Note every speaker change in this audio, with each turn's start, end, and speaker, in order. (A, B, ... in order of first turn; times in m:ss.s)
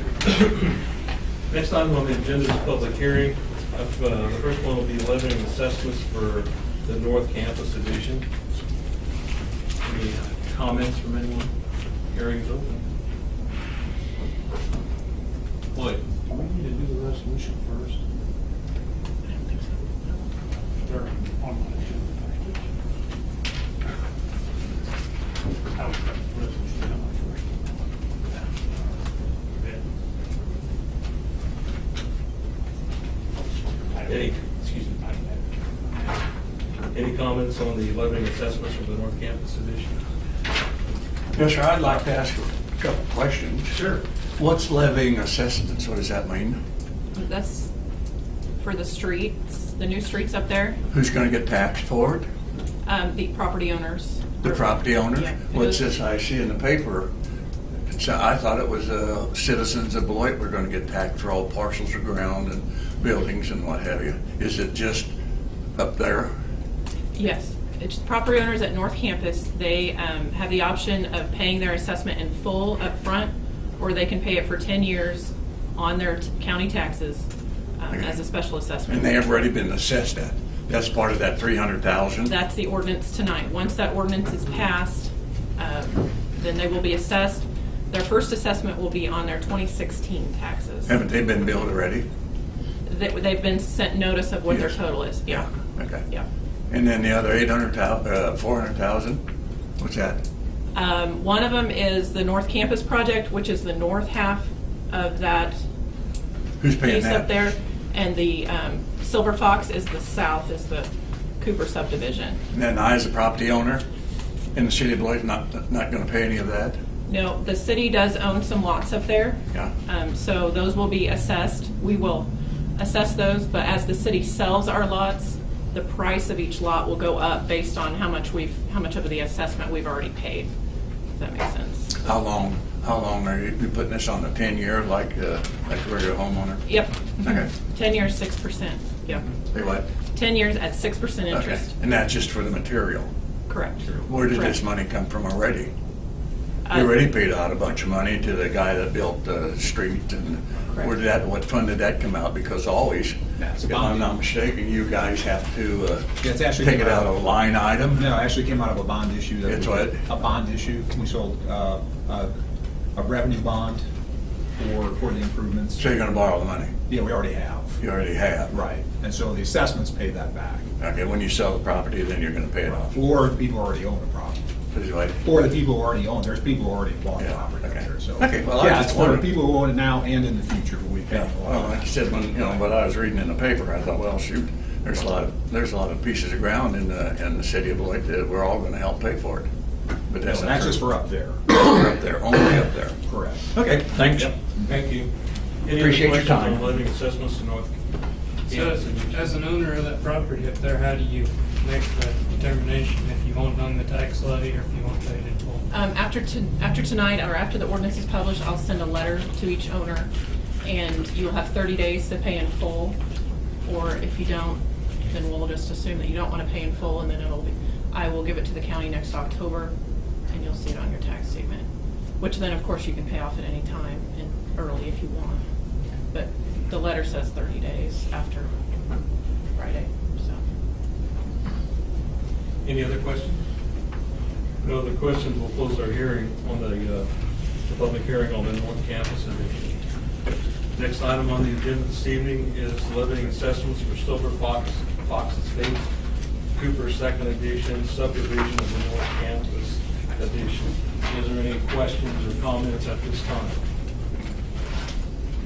0:00.2-0:00.8 A
0:01.5-0:08.3 A
0:09.8-0:11.5 A
0:12.1-0:12.9 A
0:15.8-0:18.0 B
0:19.2-0:20.3 C
0:20.8-0:22.7 B
0:25.8-0:28.9 B
0:29.5-0:29.8 B
0:34.0-0:35.4 B
0:34.0-0:34.9 A
0:36.9-0:40.0 A
0:41.3-0:43.8 D
0:44.4-0:46.6 D
0:47.1-0:47.7 C
0:48.6-0:50.8 C
0:50.9-0:52.3 D
0:52.8-0:55.8 C
0:54.4-0:57.1 D
0:57.9-1:05.1 D
1:05.8-1:06.3 D
1:07.1-1:17.3 C
1:17.8-1:19.2 C
1:18.9-1:22.3 D
1:22.2-1:31.0 C
1:30.8-1:32.0 D
1:32.8-1:35.5 C
1:34.5-1:34.7 D
1:35.3-1:36.0 D
1:36.7-1:39.2 D
1:39.8-1:40.2 D
1:40.7-1:45.6 C
1:46.6-1:47.3 D
1:46.8-1:52.4 C
1:52.5-1:53.8 D
1:54.5-1:56.8 D
1:57.1-2:10.5 C
2:11.2-2:11.9 C
2:12.0-2:16.6 D
2:16.6-2:19.2 C
2:17.2-2:17.5 D
2:19.5-2:19.8 D
2:20.1-2:21.7 C
2:21.3-2:23.1 D
2:23.5-2:24.6 C
2:24.0-2:25.7 D
2:26.6-2:27.0 C
2:26.7-2:38.1 D
2:33.4-2:34.2 E
2:36.2-2:37.2 E
2:37.9-2:42.3 E
2:39.4-2:40.0 D
2:42.9-2:43.8 E
2:44.6-2:45.8 E
2:45.8-2:46.7 D
2:46.9-2:47.8 E
2:47.8-2:48.6 D
2:48.5-2:50.6 E
2:50.8-2:52.9 D
2:52.7-2:54.4 E
2:54.7-2:55.2 D
2:55.2-3:02.6 E
2:57.2-2:59.3 D
3:01.1-3:09.5 D
3:10.1-3:10.8 D
3:10.2-3:11.4 E
3:11.5-3:13.0 D
3:13.0-3:13.6 E
3:13.5-3:14.3 D
3:14.1-3:14.3 E
3:14.6-3:15.1 A
3:15.6-3:17.7 A
3:15.7-3:16.6 D
3:18.5-3:19.3 A
3:18.5-3:25.6 F
3:25.7-3:30.1 C
3:30.6-3:33.0 C
3:33.6-3:39.7 C
3:40.3-3:41.6 C
3:42.2-3:45.4 C
3:46.1-3:48.5 C
3:49.5-3:50.4 C
3:52.6-3:53.4 A
3:54.6-3:57.1 A
3:57.6-3:59.8 A
4:00.7-4:05.9 A
4:06.5-4:13.6 A